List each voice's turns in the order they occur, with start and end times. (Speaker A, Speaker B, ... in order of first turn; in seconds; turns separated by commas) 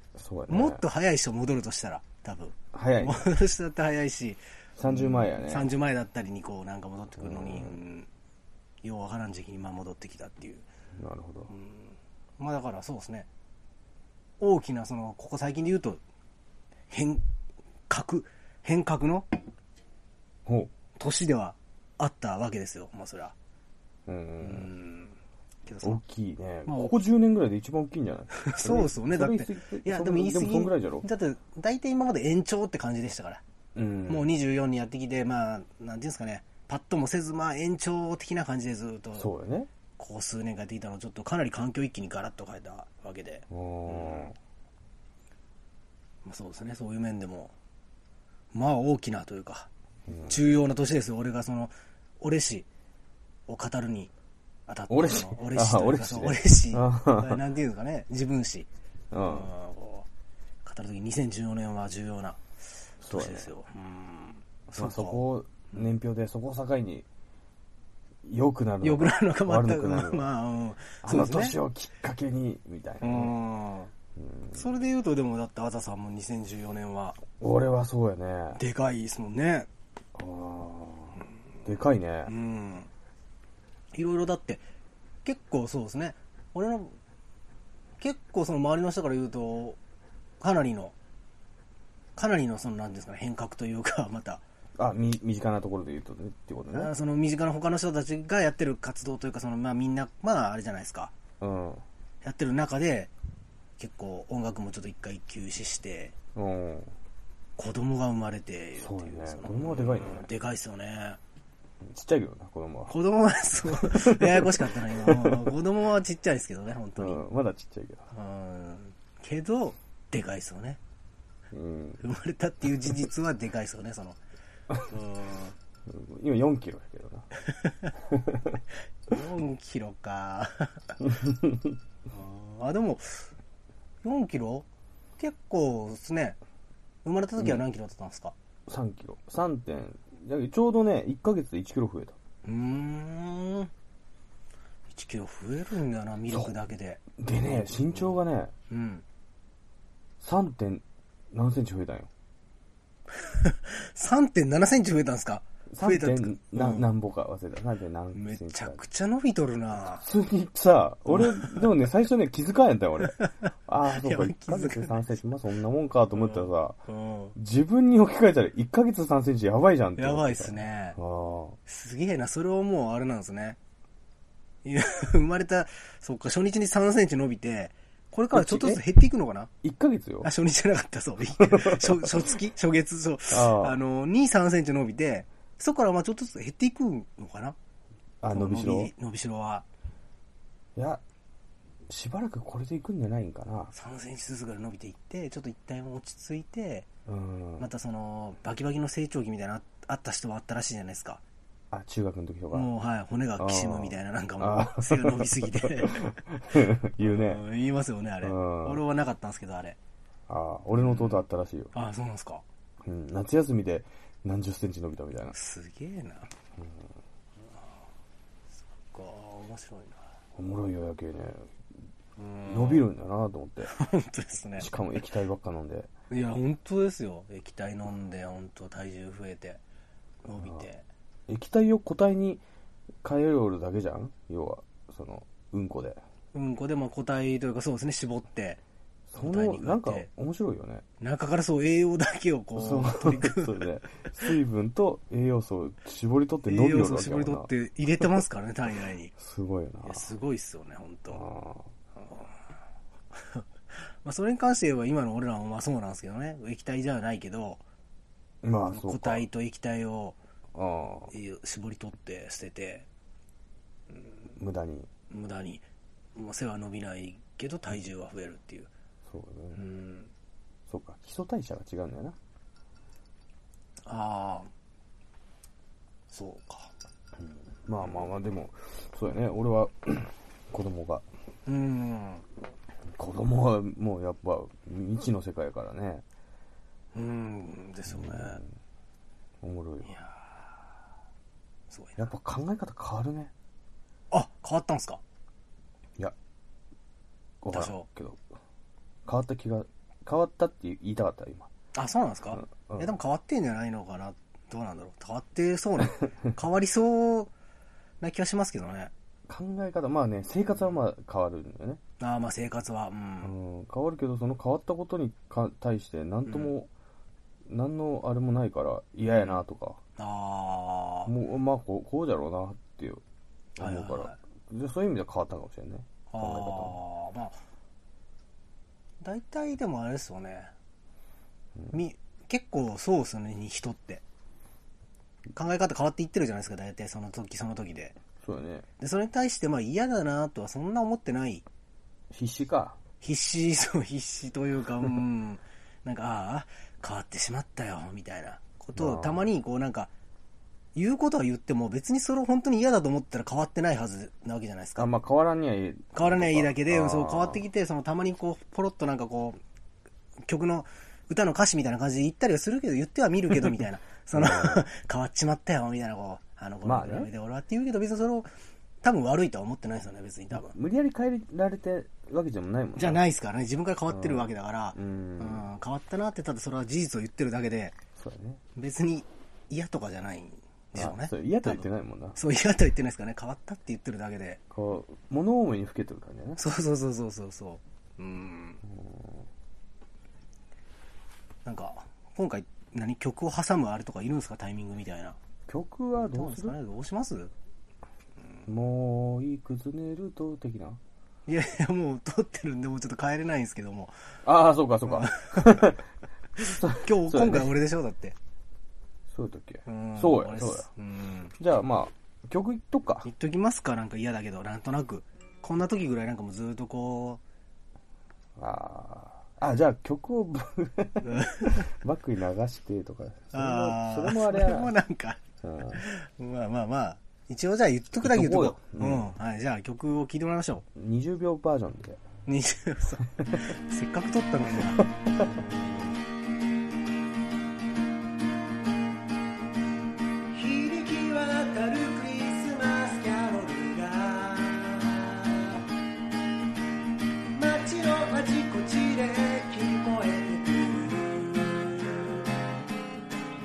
Speaker A: 0.1-0.8, Speaker B: 0.5-8.1, Speaker A: 2.7-3.3, Speaker A: 4.8-5.7, Speaker A: 7.2-7.8, Speaker B: 8.8-10.7, Speaker A: 11.0-11.5, Speaker B: 11.5-13.3, Speaker B: 14.4-16.0, Speaker B: 16.9-17.2, Speaker B: 17.9-19.3, Speaker A: 20.5-20.7, Speaker B: 21.0-23.4, Speaker A: 24.1-24.7, Speaker B: 24.4-26.0, Speaker A: 25.8-31.1, Speaker B: 26.7-26.9, Speaker B: 28.3-33.4, Speaker A: 33.8-34.3, Speaker B: 34.1-39.3, Speaker A: 39.1-39.7, Speaker B: 40.0-44.3, Speaker A: 43.5-44.4, Speaker B: 46.2-47.5, Speaker B: 48.5-49.7, Speaker A: 50.1-50.4, Speaker B: 50.3-52.7, Speaker B: 53.5-54.1, Speaker B: 54.7-60.1, Speaker A: 54.9-57.4, Speaker A: 59.1-59.5, Speaker B: 60.6-62.4, Speaker A: 63.0-63.5, Speaker B: 63.1-65.9, Speaker A: 64.7-67.1, Speaker A: 68.2-70.3, Speaker B: 68.8-71.6, Speaker A: 71.0-73.3, Speaker B: 73.0-73.9, Speaker A: 74.2-74.7, Speaker B: 74.5-77.2, Speaker A: 77.4-78.6, Speaker B: 78.6-79.7, Speaker A: 80.2-82.3, Speaker B: 82.3-82.9, Speaker B: 83.9-84.6, Speaker B: 85.2-86.9, Speaker B: 88.0-89.8, Speaker B: 90.4-91.0, Speaker B: 92.2-94.4, Speaker A: 94.8-96.9, Speaker B: 96.7-101.1, Speaker A: 101.4-101.8, Speaker B: 102.2-103.1, Speaker B: 103.8-106.2, Speaker A: 106.3-106.9, Speaker B: 107.6-111.2, Speaker A: 108.8-110.3, Speaker A: 111.8-113.0, Speaker B: 112.9-117.2, Speaker A: 113.7-115.5, Speaker A: 117.0-118.1, Speaker B: 118.1-120.8, Speaker A: 121.5-122.0, Speaker B: 122.0-124.2, Speaker B: 124.8-125.5, Speaker A: 125.9-127.3, Speaker B: 127.4-127.9, Speaker A: 128.0-128.6, Speaker B: 129.1-130.9, Speaker A: 131.1-131.8, Speaker B: 132.1-133.3, Speaker B: 134.0-134.7, Speaker B: 135.2-136.4, Speaker B: 137.1-138.3, Speaker A: 138.7-142.2, Speaker B: 142.5-143.7, Speaker B: 144.9-149.0, Speaker A: 146.3-146.6, Speaker A: 147.2-148.5, Speaker A: 150.2-152.1, Speaker B: 153.2-156.9, Speaker A: 155.7-158.8, Speaker B: 158.1-160.0, Speaker A: 159.9-166.8, Speaker B: 161.1-161.7, Speaker B: 163.0-165.0, Speaker B: 166.1-167.3, Speaker A: 167.3-171.6, Speaker B: 170.0-171.0, Speaker B: 171.7-173.6, Speaker B: 174.7-179.5, Speaker A: 178.3-178.8, Speaker A: 179.6-180.3, Speaker B: 180.2-187.6, Speaker A: 181.4-182.3, Speaker A: 183.3-183.8, Speaker A: 188.2-188.9, Speaker B: 188.3-189.7, Speaker A: 190.8-191.0, Speaker A: 191.9-193.7, Speaker B: 193.7-196.9, Speaker A: 197.1-197.7, Speaker B: 197.6-201.2, Speaker A: 201.7-202.7, Speaker B: 202.5-206.1, Speaker A: 203.4-207.4, Speaker B: 207.0-209.8, Speaker A: 208.2-208.8, Speaker A: 210.3-211.7, Speaker B: 210.8-212.4, Speaker A: 212.8-215.3, Speaker B: 215.3-216.3, Speaker A: 216.6-216.9, Speaker B: 218.7-220.0, Speaker A: 220.4-221.5, Speaker B: 222.2-222.9, Speaker A: 222.5-223.7, Speaker B: 223.7-224.7, Speaker A: 224.6-225.9, Speaker B: 226.1-229.6, Speaker B: 230.2-230.8, Speaker A: 231.3-232.4, Speaker A: 233.0-236.0, Speaker B: 236.3-238.6, Speaker A: 239.1-240.8, Speaker B: 239.2-240.1, Speaker B: 241.0-243.6, Speaker A: 242.6-248.2, Speaker B: 246.5-249.1, Speaker A: 249.2-250.1, Speaker B: 249.8-251.2, Speaker A: 251.1-251.7, Speaker B: 252.0-252.3, Speaker B: 253.2-257.6, Speaker A: 258.4-259.3, Speaker B: 258.7-260.2, Speaker A: 260.6-261.1, Speaker B: 261.1-262.9, Speaker A: 264.4-264.9, Speaker B: 265.1-265.6, Speaker B: 266.2-268.7, Speaker A: 269.1-269.6, Speaker B: 269.6-270.1, Speaker A: 270.7-272.2, Speaker B: 273.9-274.5, Speaker B: 276.1-276.7, Speaker A: 277.6-281.1, Speaker B: 277.8-278.1, Speaker B: 281.5-282.2, Speaker A: 282.9-286.0, Speaker B: 286.9-288.4, Speaker A: 287.9-288.5, Speaker A: 289.4-289.9, Speaker B: 289.9-290.6, Speaker B: 291.7-292.1, Speaker A: 292.0-293.3, Speaker B: 294.1-295.0, Speaker A: 297.4-298.2, Speaker B: 297.5-297.9, Speaker A: 299.1-301.5, Speaker B: 301.7-307.3, Speaker A: 302.3-302.9, Speaker B: 308.0-308.9, Speaker A: 309.3-311.8, Speaker B: 312.0-313.3, Speaker A: 313.2-316.7, Speaker B: 316.3-316.5, Speaker A: 317.5-319.8, Speaker B: 320.0-321.1, Speaker A: 321.1-323.0, Speaker B: 323.6-324.2, Speaker A: 323.6-326.8, Speaker B: 326.1-327.4, Speaker B: 329.0-330.5, Speaker B: 331.7-334.0, Speaker B: 335.4-338.0, Speaker A: 338.2-338.7, Speaker B: 338.8-341.4, Speaker A: 342.1-342.8, Speaker B: 343.0-349.9, Speaker A: 348.8-349.3, Speaker B: 350.8-354.9, Speaker A: 354.8-357.4, Speaker B: 355.9-359.4, Speaker B: 360.3-368.3, Speaker A: 364.1-364.7, Speaker A: 366.6-367.1, Speaker B: 368.8-370.6, Speaker A: 370.3-373.0, Speaker B: 372.8-377.8, Speaker A: 373.9-375.5, Speaker A: 378.0-378.4, Speaker B: 378.6-384.4, Speaker A: 380.8-382.2, Speaker A: 384.5-386.4, Speaker B: 386.4-388.6, Speaker A: 388.6-389.3, Speaker B: 391.4-395.2, Speaker A: 395.5-396.6, Speaker B: 396.0-397.3, Speaker A: 398.5-400.8, Speaker B: 401.3-403.9, Speaker A: 404.2-405.8, Speaker B: 404.9-405.8, Speaker B: 406.4-408.2, Speaker A: 406.4-407.5, Speaker A: 409.1-410.7, Speaker B: 409.7-411.4, Speaker A: 411.4-413.1, Speaker B: 413.0-417.2, Speaker A: 418.4-424.7, Speaker B: 421.0-421.7, Speaker B: 423.3-425.2, Speaker A: 425.4-425.8, Speaker B: 425.7-430.6, Speaker A: 428.0-429.1, Speaker A: 430.8-432.0, Speaker B: 432.3-434.9, Speaker A: 434.8-435.6, Speaker B: 440.3-445.6, Speaker B: 447.3-452.3